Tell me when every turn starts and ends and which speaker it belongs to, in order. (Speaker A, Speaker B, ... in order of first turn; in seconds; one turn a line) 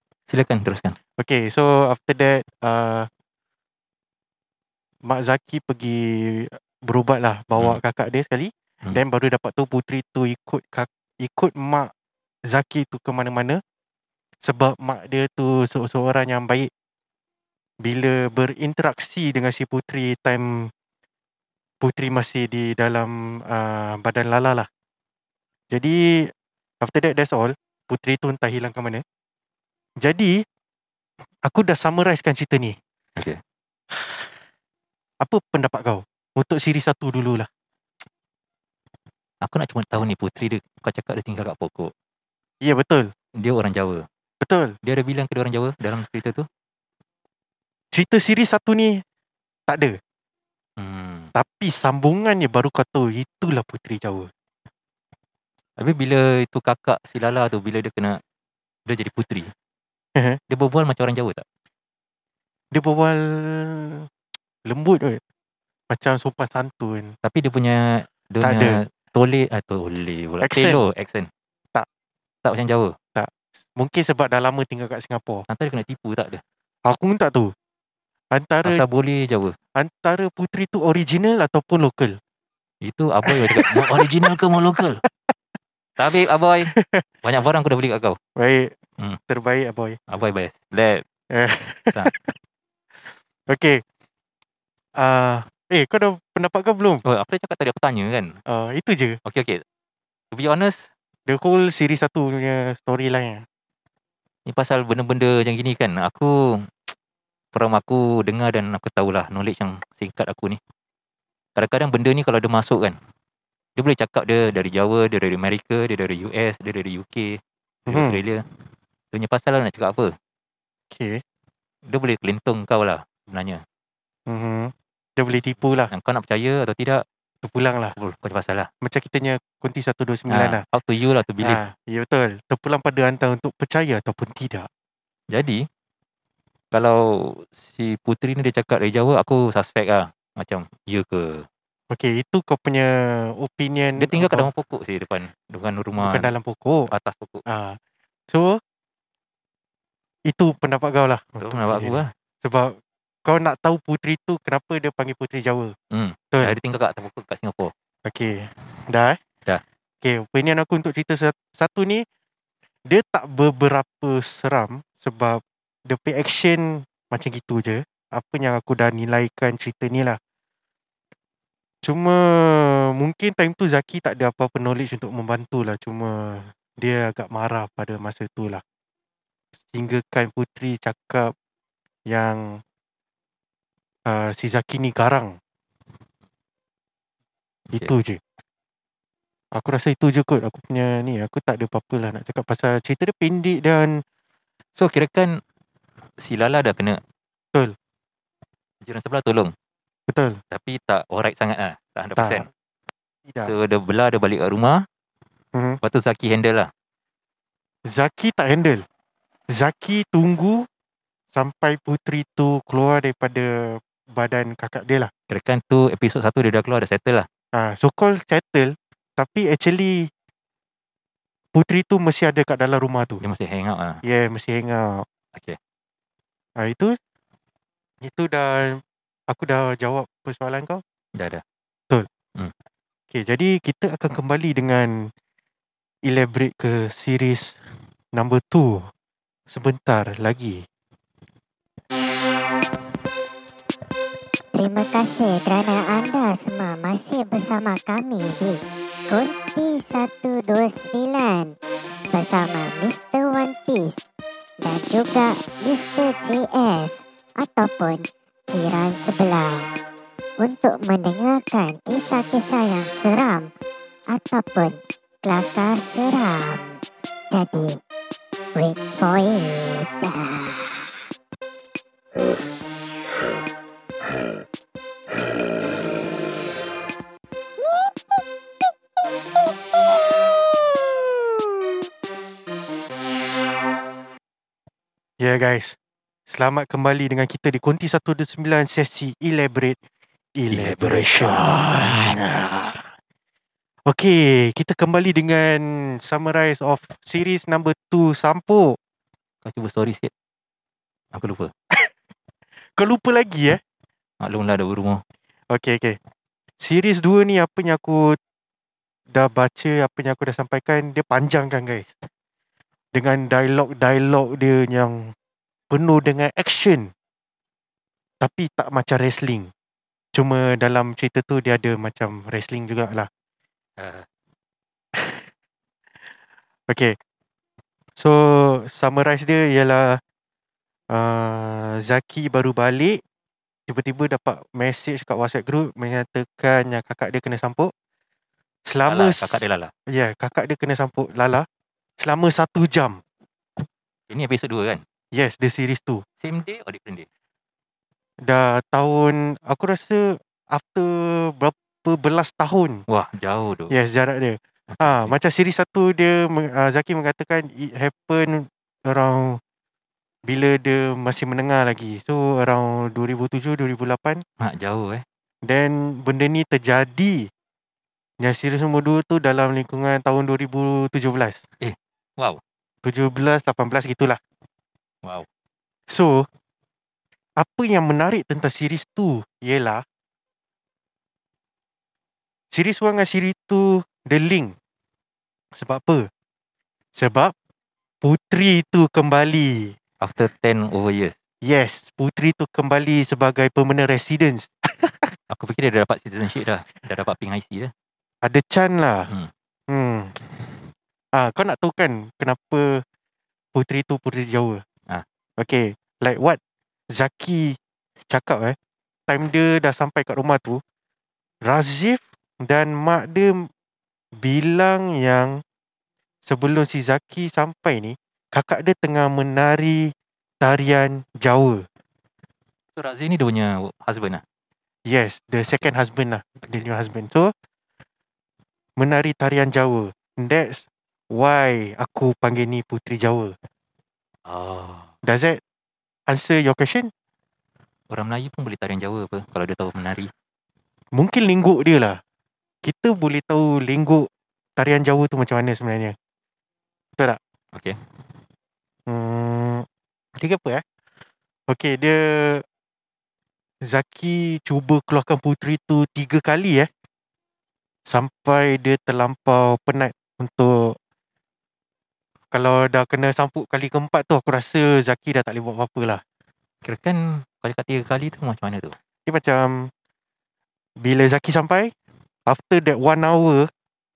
Speaker A: 0.3-1.0
Speaker B: 1.2-3.1
Speaker B: 5.0-11.9
Speaker B: 12.5-13.6
Speaker B: 14.4-16.7
Speaker B: 17.8-20.7
Speaker B: 21.8-24.7
Speaker B: 25.7-29.0
Speaker B: 30.0-30.4
Speaker B: 31.5-32.8
Speaker B: 33.9-34.3
Speaker B: 35.2-37.5
Speaker A: 39.4-41.9
Speaker B: 42.6-43.1
Speaker A: 43.4-44.1
Speaker B: 44.4-44.8
Speaker A: 44.8-46.5
Speaker B: 47.9-49.0
Speaker B: 49.7-50.0
Speaker A: 50.8-51.3
Speaker B: 51.4-54.3
Speaker A: 55.8-58.2
Speaker A: 58.9-59.5
Speaker A: 60.5-61.4
Speaker B: 62.7-64.1
Speaker B: 64.7-65.2
Speaker B: 65.9-67.2
Speaker A: 67.2-71.3
Speaker B: 68.4-68.8
Speaker B: 70.4-70.8
Speaker A: 72.5-73.0
Speaker B: 73.2-75.5
Speaker A: 75.5-76.4
Speaker B: 76.9-77.5
Speaker B: 78.3-78.8
Speaker A: 78.6-79.6
Speaker B: 79.8-82.2
Speaker A: 82.8-85.0
Speaker B: 83.2-84.3
Speaker A: 86.0-86.7
Speaker B: 86.8-87.0
Speaker A: 87.2-88.2
Speaker B: 88.4-88.8
Speaker B: 89.3-90.0
Speaker A: 90.1-91.0
Speaker B: 91.3-92.3
Speaker B: 93.5-93.8
Speaker B: 95.0-97.0
Speaker A: 97.1-98.4
Speaker B: 98.5-99.2
Speaker A: 99.2-99.6
Speaker A: 100.3-100.9
Speaker B: 101.3-103.5
Speaker A: 104.5-106.9
Speaker A: 107.5-110.6
Speaker A: 111.6-113.0
Speaker A: 113.8-118.5
Speaker B: 117.9-118.2
Speaker A: 119.1-120.2
Speaker B: 120.9-121.2
Speaker A: 121.9-123.6
Speaker B: 124.3-125.9
Speaker A: 125.9-127.0
Speaker B: 127.4-128.0
Speaker A: 128.0-128.7
Speaker B: 128.8-130.6
Speaker A: 130.3-131.6
Speaker B: 131.4-134.7
Speaker A: 135.3-135.7
Speaker A: 136.7-141.5
Speaker B: 141.9-144.5
Speaker A: 144.0-146.3
Speaker B: 146.0-146.9
Speaker A: 146.9-147.4
Speaker B: 147.5-147.8
Speaker B: 148.3-148.6
Speaker B: 150.3-155.8
Speaker A: 151.4-152.1
Speaker A: 155.9-157.7
Speaker B: 158.1-159.2
Speaker B: 160.0-162.1
Speaker B: 162.9-170.2
Speaker B: 171.8-178.6
Speaker B: 179.7-181.3
Speaker B: 182.1-182.6
Speaker B: 184.1-185.4
Speaker B: 187.7-188.2
Speaker B: 189.5-194.0
Speaker A: 194.8-195.4
Speaker A: 196.2-197.0
Speaker A: 198.8-199.5
Speaker B: 200.1-200.4
Speaker A: 200.5-202.5
Speaker B: 202.2-202.5
Speaker A: 203.4-204.8
Speaker B: 205.5-205.8
Speaker A: 205.8-206.7
Speaker B: 207.9-208.8
Speaker B: 209.5-210.7
Speaker B: 211.3-215.1
Speaker A: 215.3-217.3
Speaker B: 217.5-220.1
Speaker B: 221.6-223.2
Speaker A: 223.2-224.0
Speaker B: 224.0-225.1
Speaker B: 226.6-227.0
Speaker B: 228.0-230.8
Speaker A: 231.2-231.4
Speaker B: 233.1-235.1
Speaker B: 236.1-237.6
Speaker B: 238.1-238.9
Speaker B: 239.5-240.7
Speaker C: 244.5-251.5
Speaker C: 252.1-254.0
Speaker C: 254.6-259.7
Speaker C: 260.4-263.5
Speaker C: 264.1-266.8
Speaker C: 267.3-267.8
Speaker C: 268.6-270.9
Speaker B: 285.2-289.8
Speaker B: 290.4-292.9
Speaker A: 290.5-292.2
Speaker B: 293.9-298.8
Speaker A: 299.4-300.1
Speaker A: 301.1-301.5
Speaker B: 302.8-303.6
Speaker A: 304.2-305.0
Speaker B: 305.5-306.0
Speaker B: 306.6-308.2
Speaker B: 309.1-312.1
Speaker B: 312.9-315.1
Speaker B: 315.7-316.9
Speaker B: 318.2-319.5
Speaker B: 320.1-323.1
Speaker A: 323.8-324.1
Speaker B: 325.0-325.3
Speaker B: 326.7-327.0
Speaker B: 328.0-330.0
Speaker B: 330.9-333.0
Speaker B: 333.7-337.7
Speaker B: 338.7-341.5
Speaker A: 338.9-339.7
Speaker B: 342.0-343.0
Speaker A: 344.1-344.8
Speaker B: 345.1-346.0
Speaker A: 346.2-347.1
Speaker B: 348.2-352.8
Speaker A: 352.9-353.7
Speaker B: 353.7-359.4
Speaker A: 354.7-355.1
Speaker B: 360.3-364.2
Speaker A: 364.4-365.0
Speaker B: 365.4-367.3
Speaker B: 368.2-371.4
Speaker A: 371.6-372.4
Speaker B: 372.8-374.2
Speaker B: 375.9-376.3
Speaker B: 377.4-379.8
Speaker B: 382.5-384.6
Speaker B: 385.5-386.1
Speaker B: 386.9-387.3
Speaker B: 388.0-389.8
Speaker A: 390.0-391.1
Speaker B: 391.4-395.1
Speaker A: 395.3-397.7
Speaker B: 398.2-399.1
Speaker B: 399.7-402.8
Speaker B: 403.5-404.6
Speaker B: 405.4-406.4
Speaker B: 406.9-407.6
Speaker B: 408.1-408.6
Speaker B: 409.1-410.6
Speaker B: 411.4-413.5
Speaker B: 414.2-415.4
Speaker B: 416.2-421.6
Speaker A: 422.8-424.2
Speaker B: 424.9-427.3
Speaker B: 428.8-433.4
Speaker A: 434.3-434.9
Speaker B: 435.0-435.4
Speaker B: 436.1-436.9
Speaker A: 437.9-440.1
Speaker B: 440.9-442.0
Speaker B: 442.6-446.0
Speaker B: 448.9-449.7
Speaker B: 450.2-450.6
Speaker B: 451.5-452.4
Speaker B: 453.6-456.7
Speaker B: 457.9-460.8
Speaker B: 462.3-466.0
Speaker A: 466.6-468.8
Speaker B: 469.1-469.7
Speaker B: 470.8-471.7
Speaker B: 472.3-473.5